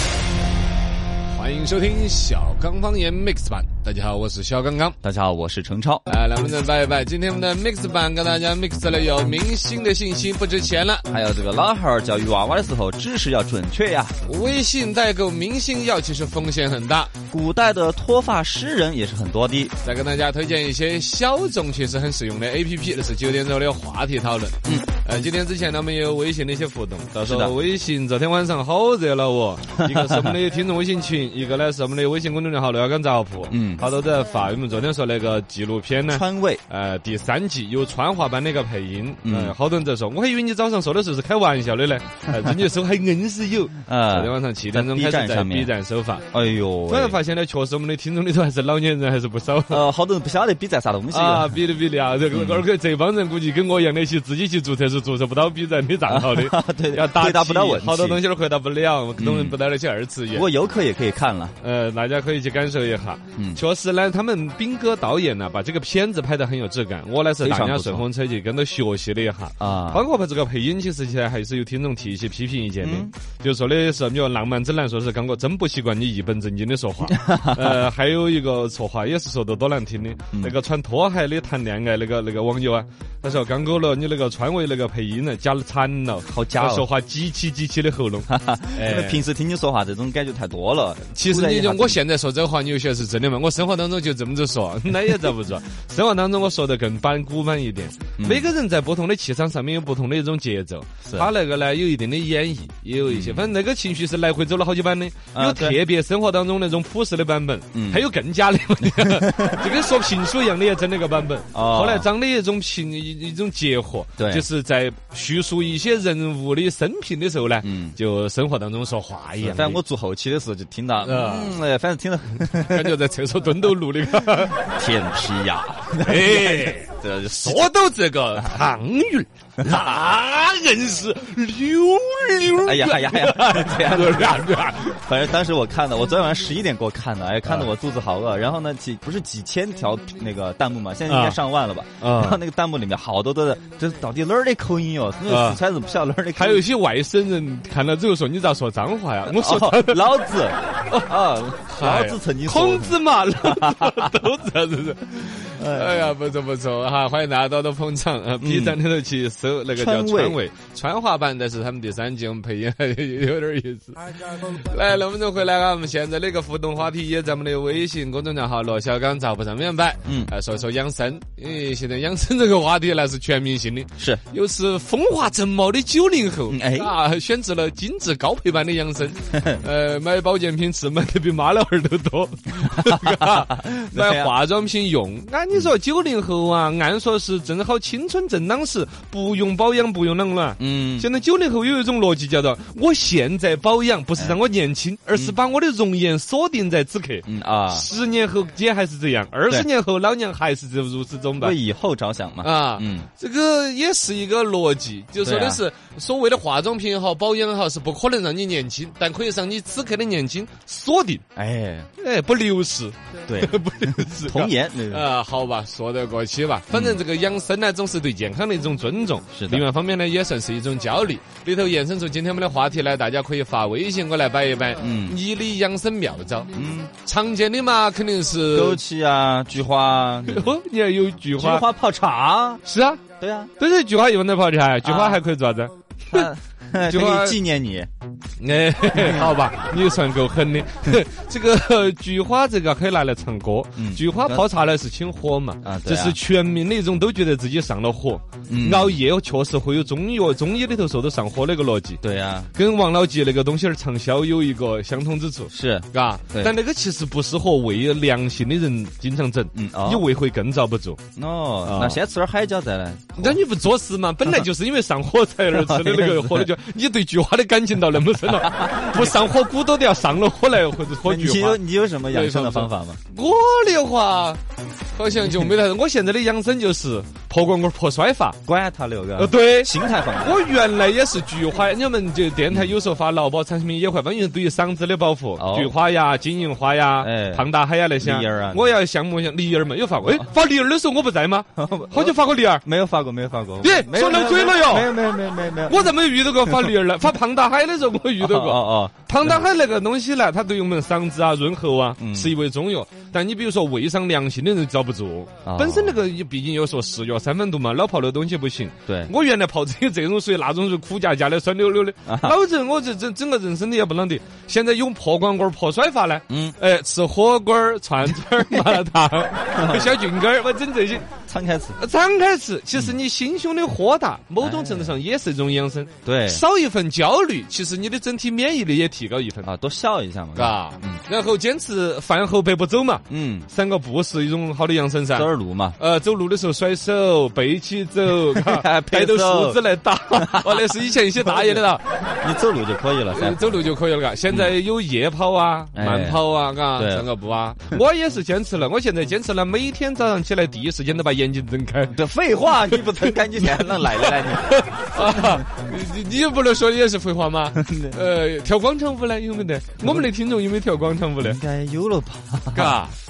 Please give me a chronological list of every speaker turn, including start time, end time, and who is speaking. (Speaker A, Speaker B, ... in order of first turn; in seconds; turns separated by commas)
Speaker A: 1.3-5.0, Speaker B: 5.0-6.0, Speaker A: 6.1-11.1, Speaker B: 11.1-14.2, Speaker A: 14.2-17.1, Speaker B: 17.3-19.7, Speaker A: 19.8-46.2, Speaker B: 27.2-27.5, Speaker B: 29.9-30.3, Speaker B: 33.5-33.8, Speaker B: 36.1-36.6, Speaker B: 39.2-39.5, Speaker B: 43.9-45.7, Speaker B: 46.3-47.2, Speaker A: 46.9-49.8, Speaker B: 49.7-51.5, Speaker A: 51.1-60.5, Speaker B: 52.3-52.6, Speaker B: 56.0-58.2, Speaker B: 59.2-59.5, Speaker B: 60.3-61.5, Speaker A: 61.6-89.2, Speaker B: 63.3-63.6, Speaker B: 67.4-68.0, Speaker B: 69.6-70.0, Speaker B: 72.8-73.1, Speaker B: 77.1-77.8, Speaker B: 86.3-86.9, Speaker B: 88.3-92.0, Speaker A: 91.1-119.8, Speaker B: 98.2-98.5, Speaker B: 103.1-103.5, Speaker B: 105.3-105.8, Speaker B: 107.7-108.0, Speaker B: 108.8-109.6, Speaker B: 111.5-112.0, Speaker B: 114.2-114.4, Speaker B: 117.6-118.0, Speaker B: 119.4-123.0, Speaker A: 121.0-121.6, Speaker A: 122.6-124.6, Speaker B: 124.6-127.7, Speaker A: 126.0-135.0, Speaker B: 132.6-146.7, Speaker A: 141.1-141.4, Speaker A: 142.0-142.4, Speaker A: 145.3-145.6, Speaker A: 146.3-150.1, Speaker B: 149.2-154.1, Speaker A: 150.8-151.2, Speaker A: 151.7-201.6, Speaker B: 155.6-156.1, Speaker B: 158.4-158.8, Speaker B: 159.7-160.4, Speaker B: 170.0-170.3, Speaker B: 176.5-176.9, Speaker B: 179.3-179.6, Speaker B: 182.8-184.3, Speaker B: 190.6-191.1, Speaker B: 197.3-197.9, Speaker B: 201.4-203.1, Speaker A: 202.4-211.2, Speaker B: 205.2-205.6, Speaker B: 211.3-211.9, Speaker A: 212.0-226.5, Speaker B: 213.3-215.1, Speaker B: 216.7-217.0, Speaker B: 219.3-219.6, Speaker B: 224.8-225.2, Speaker B: 226.5-226.9, Speaker A: 227.0-228.8, Speaker B: 228.5-230.5, Speaker A: 230.3-231.7, Speaker B: 231.3-232.6, Speaker A: 232.6-233.0, Speaker B: 233.2-233.5, Speaker A: 233.6-236.3, Speaker B: 234.8-235.2, Speaker B: 236.1-237.9, Speaker A: 236.8-237.4, Speaker A: 238.4-252.0, Speaker B: 238.9-239.2, Speaker B: 243.8-244.4, Speaker B: 245.6-246.2, Speaker B: 248.5-249.0, Speaker B: 252.0-252.5, Speaker A: 252.5-261.0, Speaker B: 255.5-256.5, Speaker B: 259.5-260.1, Speaker B: 261.2-263.4, Speaker A: 261.6-262.0, Speaker A: 263.2-274.4, Speaker B: 265.5-266.5, Speaker B: 268.4-269.1, Speaker B: 271.0-273.0, Speaker A: 274.9-278.4, Speaker B: 278.4-280.4, Speaker A: 279.2-292.6, Speaker B: 285.4-285.7, Speaker B: 287.0-287.5, Speaker B: 288.0-288.7, Speaker B: 291.6-296.7, Speaker A: 293.6-294.9, Speaker A: 295.7-321.1, Speaker B: 298.2-299.4, Speaker B: 302.0-302.4, Speaker B: 305.4-306.0, Speaker B: 308.9-309.1, Speaker B: 312.1-312.4, Speaker B: 316.3-316.6, Speaker B: 319.5-320.0, Speaker B: 321.2-321.8, Speaker A: 321.8-329.5, Speaker B: 324.4-325.0, Speaker B: 326.1-326.4, Speaker B: 329.4-331.0, Speaker A: 330.4-341.9, Speaker B: 333.1-333.5, Speaker B: 335.1-335.8, Speaker B: 338.2-339.6, Speaker B: 340.1-340.6, Speaker B: 341.2-341.6, Speaker B: 342.2-343.7, Speaker A: 343.1-352.0, Speaker B: 345.8-346.2, Speaker B: 346.7-347.1, Speaker B: 351.9-355.4, Speaker A: 352.7-361.4, Speaker B: 357.6-358.0, Speaker B: 361.2-362.8, Speaker A: 362.5-362.9